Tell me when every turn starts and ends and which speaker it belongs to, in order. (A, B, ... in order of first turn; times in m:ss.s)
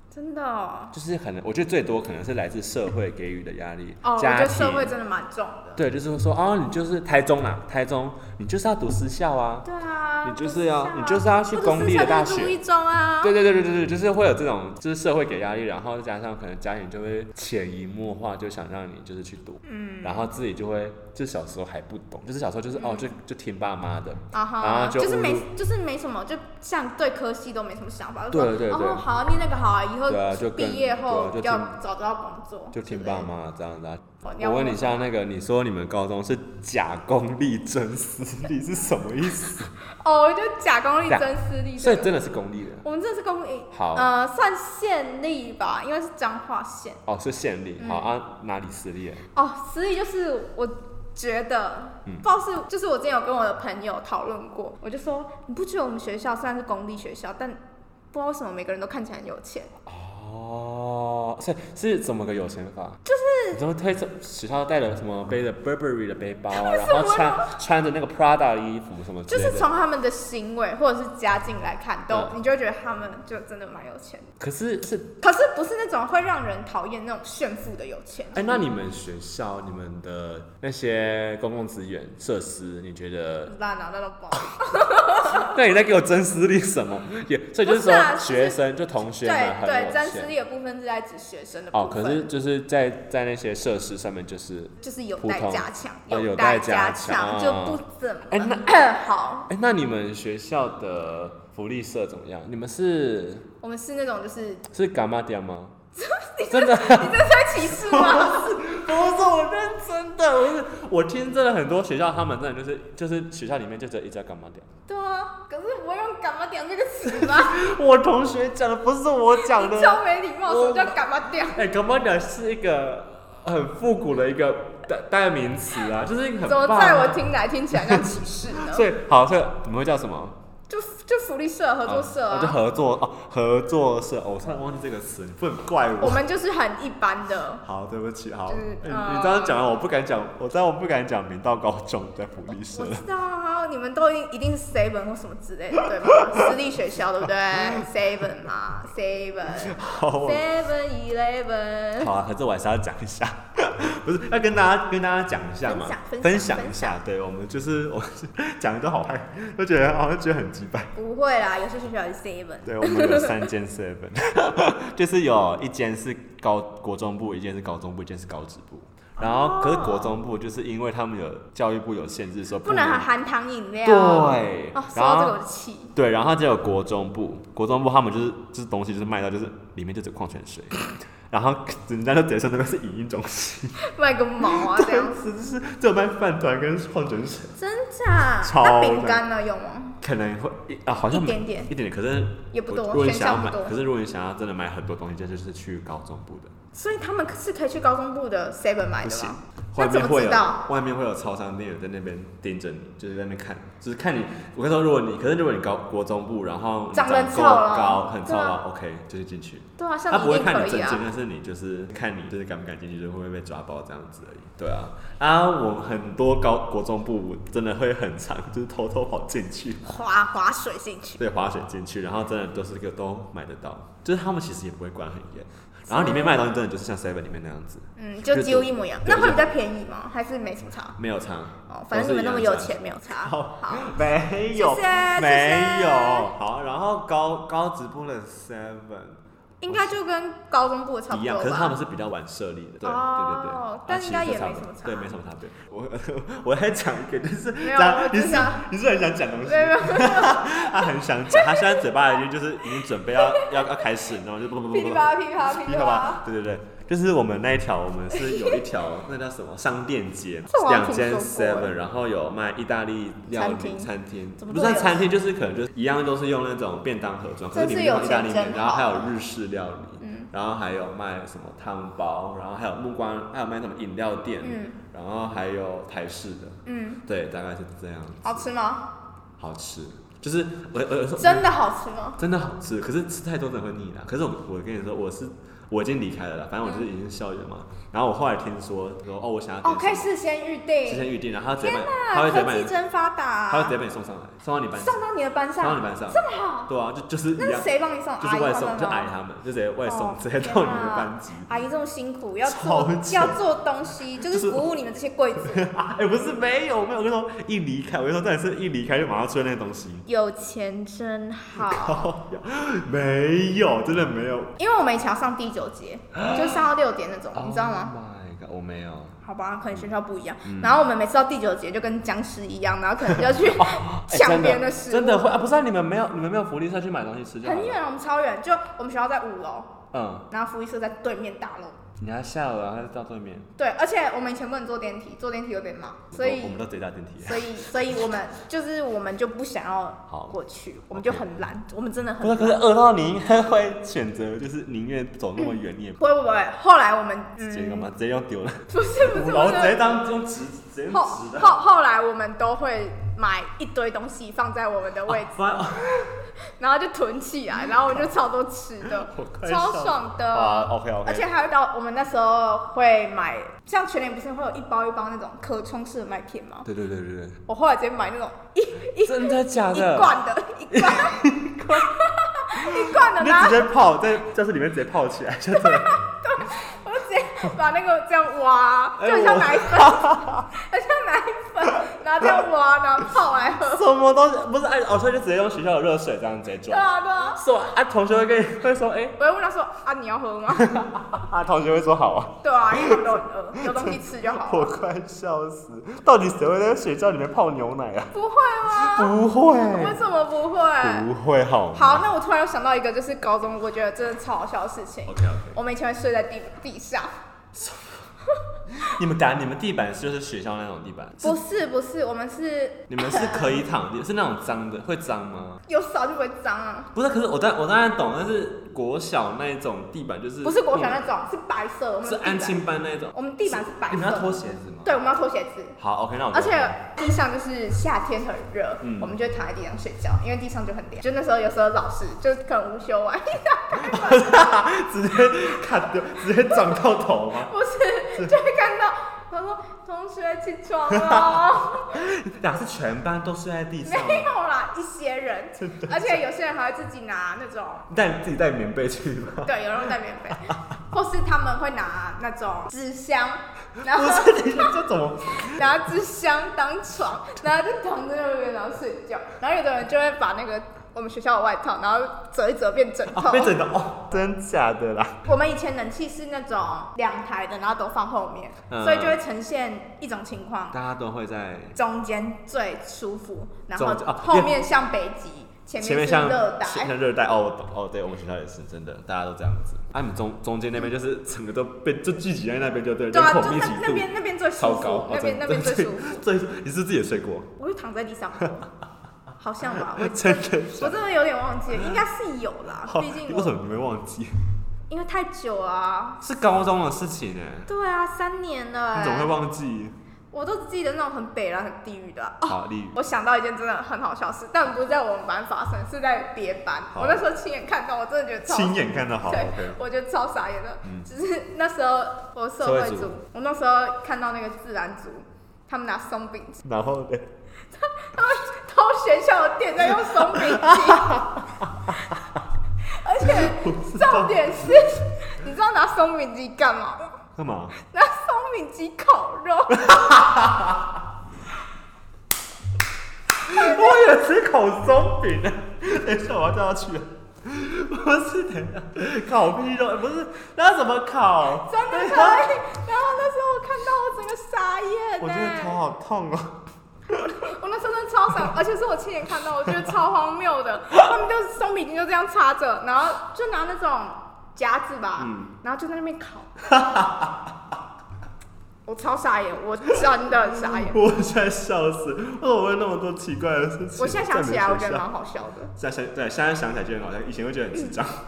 0:00.1-0:01.0 A
0:00.9-0:04.9 B
0:04.0-0:05.8 A
0:05.8-0:09.7 B
0:09.6-0:13.4 A
0:10.2-0:12.6 B
0:13.2-0:25.5 B
0:19.6-0:20.3 A
0:22.7-0:23.1 A
0:24.3-0:33.3 A
0:28.3-0:29.1 B
0:30.1-0:31.8 B
0:32.7-0:39.7 B
0:34.2-0:35.1 A
0:39.9-0:42.1 A
0:41.1-0:42.8 B
0:42.8-0:47.0 A
0:43.7-0:44.1 B
0:47.1-0:49.2 B
0:47.8-0:48.1 A
0:49.4-0:57.6 A
0:58.1-0:59.7 A
0:59.9-1:03.0 B
1:03.1-1:03.6 A
1:03.5-1:09.7 B
1:06.5-1:07.5 A
1:09.3-1:14.3 A
1:14.4-1:15.2 B
1:15.2-1:18.7 A
1:18.3-1:23.5 B
1:23.5-1:25.5 A
1:25.1-1:30.3 B
1:27.6-1:28.6 A
1:29.2-1:32.3 A
1:31.7-1:38.7 B
1:34.8-1:39.5 A
1:39.5-1:43.5 B
1:43.6-1:44.6 A
1:44.7-1:45.8 B
1:46.0-1:48.6 A
1:46.5-1:54.7 B
1:54.9-1:57.6 A
1:57.0-2:10.4 B
1:59.4-2:01.6 A
2:06.4-2:08.9 A
2:10.7-2:12.6 A
2:11.9-2:16.2 B
2:16.0-2:17.6 A
2:17.6-2:23.0 B
2:18.5-2:19.6 A
2:22.7-2:32.1 A
2:25.9-2:26.5 B
2:27.3-2:27.9 B
2:29.5-2:30.5 B
2:32.0-2:40.9 B
2:35.6-2:37.0 A
2:41.0-2:43.5 A
2:42.6-2:53.1 B
2:49.2-2:50.2 A
2:52.6-2:55.9 A
2:53.8-2:55.4 B
2:56.0-3:03.8 B
3:03.8-3:05.2 A
3:04.4-3:07.6 B
3:07.6-3:10.0 A
3:08.4-3:09.2 B
3:10.0-3:16.5 B
3:11.1-3:11.7 A
3:12.5-3:13.8 A
3:16.7-3:20.6 A
3:19.0-3:39.9 B
3:26.9-3:28.6 A
3:29.8-3:31.0 A
3:39.9-3:41.2 A
3:41.2-3:49.5 B
3:45.9-3:46.4 A
3:48.0-3:51.0 A
3:51.0-4:00.0 B
3:51.7-3:54.0 A
3:54.5-3:56.3 A
3:59.6-4:01.8 A
4:01.1-4:38.5 B
4:02.8-4:05.1 A
4:07.6-4:08.6 A
4:09.4-4:11.8 A
4:13.1-4:13.8 A
4:14.7-4:16.2 A
4:18.1-4:18.6 A
4:20.5-4:21.7 A
4:23.3-4:25.1 A
4:27.5-4:29.1 A
4:30.0-4:30.3 A
4:34.4-4:34.8 A
4:36.7-4:37.0 A
4:38.2-4:38.9 A
4:39.4-4:41.5 B
4:41.2-4:42.2 A
4:42.2-4:50.1 B
4:49.6-4:53.8 A
4:50.9-4:52.7 B
4:53.5-4:55.0 B
4:54.8-4:56.7 A
4:55.6-5:01.5 B
4:57.4-4:59.1 A
4:59.8-5:05.7 A
5:02.4-5:03.4 B
5:04.2-5:04.7 B
5:05.4-5:10.0 B
5:10.1-5:12.1 A
5:11.6-5:14.6 B
5:14.6-5:17.9 A
5:16.2-5:16.7 B
5:17.3-5:19.2 B
5:19.2-5:25.3 A
5:20.4-5:20.8 B
5:23.1-5:27.8 B
5:27.4-5:29.8 A
5:29.9-5:30.3 B
5:30.3-5:31.8 A
5:32.0-5:33.5 B
5:33.6-5:36.6 A
5:36.1-5:37.8 B
5:37.2-5:42.6 A
5:40.1-5:40.4 B
5:40.9-5:41.2 B
5:42.2-5:46.0 B
5:46.0-5:47.9 A
5:47.4-5:51.6 B
5:48.7-5:50.0 A
5:50.9-6:06.7 A
5:55.1-5:56.2 B
5:57.6-5:58.1 B
5:58.8-6:01.3 B
6:06.6-6:07.4 B
6:07.5-6:13.7 A
6:09.0-6:10.2 B
6:10.7-6:11.9 B
6:12.5-6:16.0 B
6:15.6-6:23.9 A
6:19.0-6:20.5 B
6:23.6-6:29.2 B
6:26.7-6:27.4 A
6:29.2-6:30.8 A
6:30.5-6:38.1 B
6:32.4-6:34.7 A
6:38.1-6:41.1 A
6:38.7-6:40.0 B
6:40.8-6:42.0 B
6:41.7-6:47.1 A
6:45.1-6:45.6 B
6:47.5-6:48.1 B
6:48.3-6:48.9 A
6:48.7-6:51.4 B
6:51.2-6:53.6 A
6:52.9-6:55.6 B
6:55.7-6:56.9 A
6:56.9-7:01.0 B
7:00.4-7:02.6 A
7:02.0-7:05.0 B
7:03.1-7:05.8 A
7:05.8-7:06.8 B
7:06.3-7:14.5 A
7:08.8-7:09.1 B
7:13.8-7:17.5 B
7:17.4-7:22.1 A
7:20.9-7:24.3 B
7:23.8-7:27.9 A
7:25.6-7:26.2 B
7:27.9-7:29.9 B
7:29.4-7:34.8 A
7:33.8-7:35.9 B
7:35.4-7:43.6 A
7:43.1-7:45.3 B
7:45.2-7:50.8 A
7:48.7-7:49.2 B
7:50.7-7:51.8 B
7:51.8-7:56.9 A
7:53.8-7:54.6 B
7:55.8-8:07.5 B
8:03.1-8:06.2 A
8:07.6-8:08.7 A
8:09.4-8:13.6 A
8:09.7-8:11.0 B
8:11.7-8:12.0 B
8:12.8-8:14.4 B
8:14.9-8:16.2 A
8:16.2-8:17.7 B
8:17.7-8:19.3 A
8:19.0-8:20.0 B
8:20.3-8:36.6 A
8:22.5-8:23.0 B
8:26.9-8:27.2 B
8:28.5-8:29.8 B
8:30.8-8:31.1 B
8:32.6-8:33.2 B
8:36.6-8:37.3 B
8:37.8-8:41.3 A
8:40.0-8:42.2 B
8:42.9-8:47.2 A
8:43.2-8:44.8 B
8:47.4-8:47.7 B
8:47.8-8:50.1 A
8:49.7-8:51.0 B
8:53.4-9:02.6 B
8:53.5-8:54.1 A
9:01.7-9:05.8 A
9:05.2-9:06.6 B
9:07.1-9:16.6 A
9:15.2-9:15.5 B
9:16.6-9:17.6 B
9:18.9-9:21.0 A
9:20.5-9:25.1 B
9:24.0-9:25.7 A
9:25.8-9:28.1 B